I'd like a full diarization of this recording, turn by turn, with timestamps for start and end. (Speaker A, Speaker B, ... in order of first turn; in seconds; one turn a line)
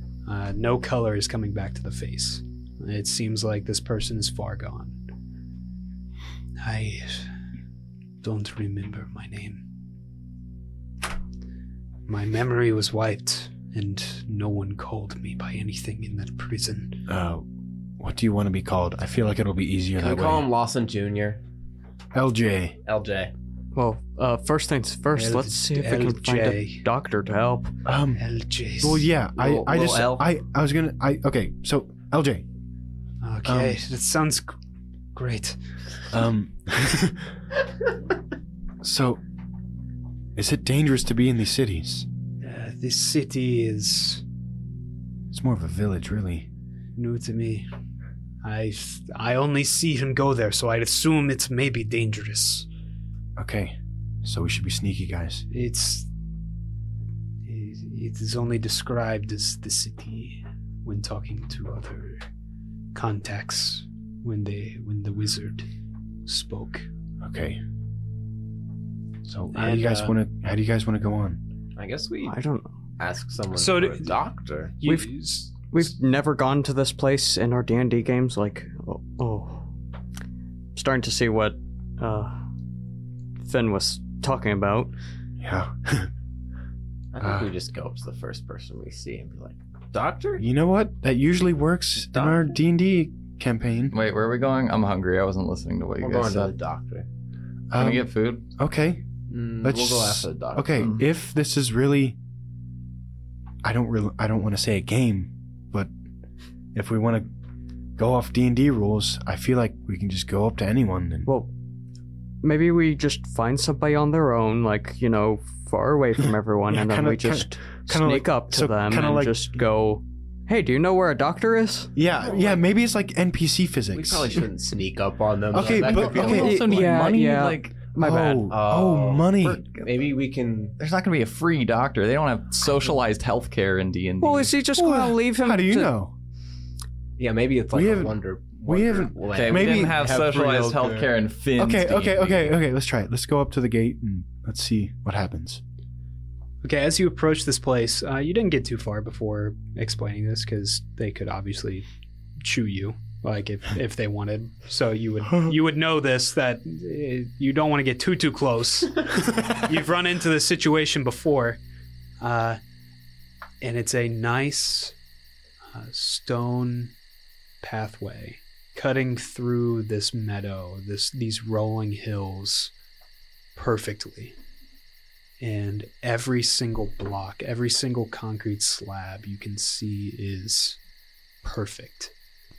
Speaker A: 0.2-5.0
Speaker A: 6.6-7.3
Speaker A: 8.2-9.7
Speaker A: 12.1-17.1
Speaker B: 17.1-17.5
Speaker B: 18.0-20.5
Speaker C: 20.0-21.4
Speaker B: 22.1-22.8
Speaker C: 22.8-23.3
Speaker D: 23.7-27.7
Speaker A: 25.1-26.8
Speaker B: 27.9-28.2
Speaker A: 28.2-29.1
Speaker B: 28.8-32.5
Speaker C: 29.4-30.2
Speaker A: 33.2-34.5
Speaker B: 33.5-33.8
Speaker A: 35.1-35.6
Speaker B: 36.1-37.3
Speaker B: 38.8-39.2
Speaker B: 40.3-42.1
Speaker A: 42.4-44.2
Speaker B: 45.3-46.5
Speaker A: 47.0-47.7
Speaker A: 48.4-52.7
Speaker B: 53.4-55.5
Speaker A: 55.5-56.1
Speaker A: 57.4-62.2
Speaker A: 62.9-65.7
Speaker A: 66.2-66.9
Speaker B: 67.2-67.6
Speaker B: 69.2-71.4
Speaker A: 69.5-70.2
Speaker C: 71.8-72.4
Speaker D: 72.2-72.7
Speaker C: 73.0-74.8
Speaker A: 73.5-74.2
Speaker A: 74.8-75.7
Speaker D: 74.8-79.7
Speaker D: 80.7-82.4
Speaker D: 83.4-84.9
Speaker B: 85.4-86.1
Speaker C: 87.1-90.4
Speaker B: 87.2-87.5
Speaker B: 90.4-93.9
Speaker C: 92.1-92.5
Speaker E: 93.9-96.5
Speaker C: 96.0-97.1
Speaker B: 97.7-99.0
Speaker E: 97.7-98.5
Speaker C: 99.3-101.0
Speaker B: 99.6-102.2
Speaker E: 100.8-101.0
Speaker B: 103.6-105.9
Speaker B: 106.7-107.3
Speaker B: 108.0-111.3
Speaker D: 111.2-111.5
Speaker D: 112.4-121.9
Speaker B: 116.7-119.4
Speaker B: 122.0-124.4
Speaker C: 122.2-122.6
Speaker C: 123.9-126.5
Speaker B: 125.5-129.6
Speaker E: 125.6-127.7
Speaker D: 126.3-128.5
Speaker C: 128.5-130.7
Speaker E: 130.8-134.5
Speaker D: 134.2-135.9
Speaker B: 134.8-136.1
Speaker C: 137.2-141.1
Speaker B: 137.7-140.1
Speaker E: 139.3-142.6
Speaker B: 141.6-145.6
Speaker A: 146.6-151.9
Speaker A: 152.4-161.6
Speaker A: 162.2-162.6
Speaker A: 163.6-164.9
Speaker A: 165.7-166.9
Speaker A: 167.6-172.7
Speaker A: 173.6-174.4
Speaker A: 175.4-180.8
Speaker A: 181.4-182.1